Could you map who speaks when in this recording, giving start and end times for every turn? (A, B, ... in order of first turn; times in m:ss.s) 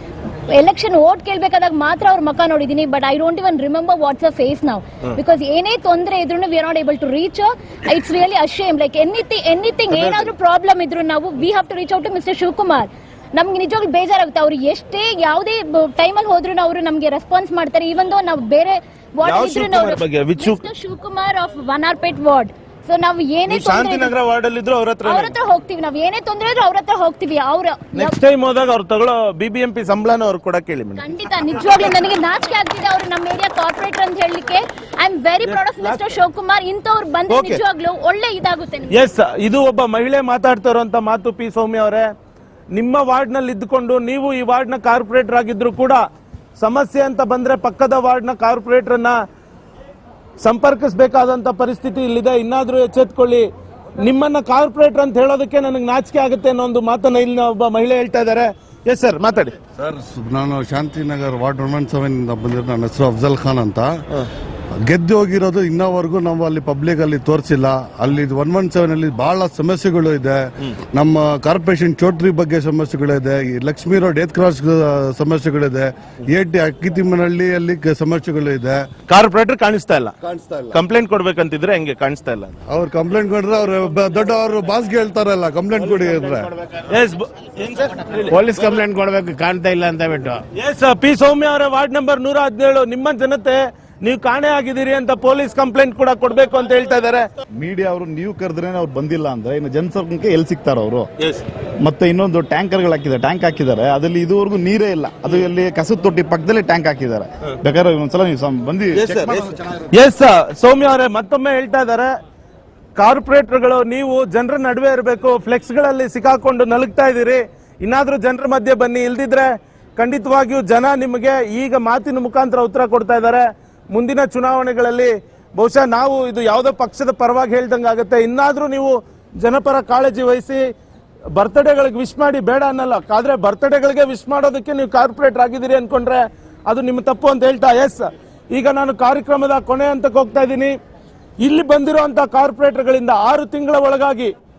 0:00.5-0:24.1 A
0:09.9-0:10.3 B
0:19.2-0:20.6 B
0:23.5-0:25.3 B
0:25.1-0:28.2 A
0:27.9-0:31.1 B
0:31.0-0:39.1 A
0:35.4-0:36.2 B
0:37.3-0:37.6 B
0:38.9-0:42.1 B
0:42.8-0:46.0 B
0:46.6-0:49.1 B
0:50.4-0:53.5 B
0:54.0-0:59.6 B
0:59.8-1:03.9 C
1:04.9-1:10.4 C
1:10.9-1:18.9 C
1:19.1-1:20.2 B
1:20.2-1:20.7 C
1:20.7-1:22.6 B
1:22.7-1:26.5 C
1:26.8-1:28.5 B
1:28.3-1:30.4 D
1:30.5-1:37.2 B
1:37.6-1:41.1 E
1:41.8-1:49.6 E
1:49.0-1:49.4 B
1:49.9-1:52.1 B
1:53.0-2:10.6 B
2:11.4-2:20.7 B
2:21.4-2:24.3 B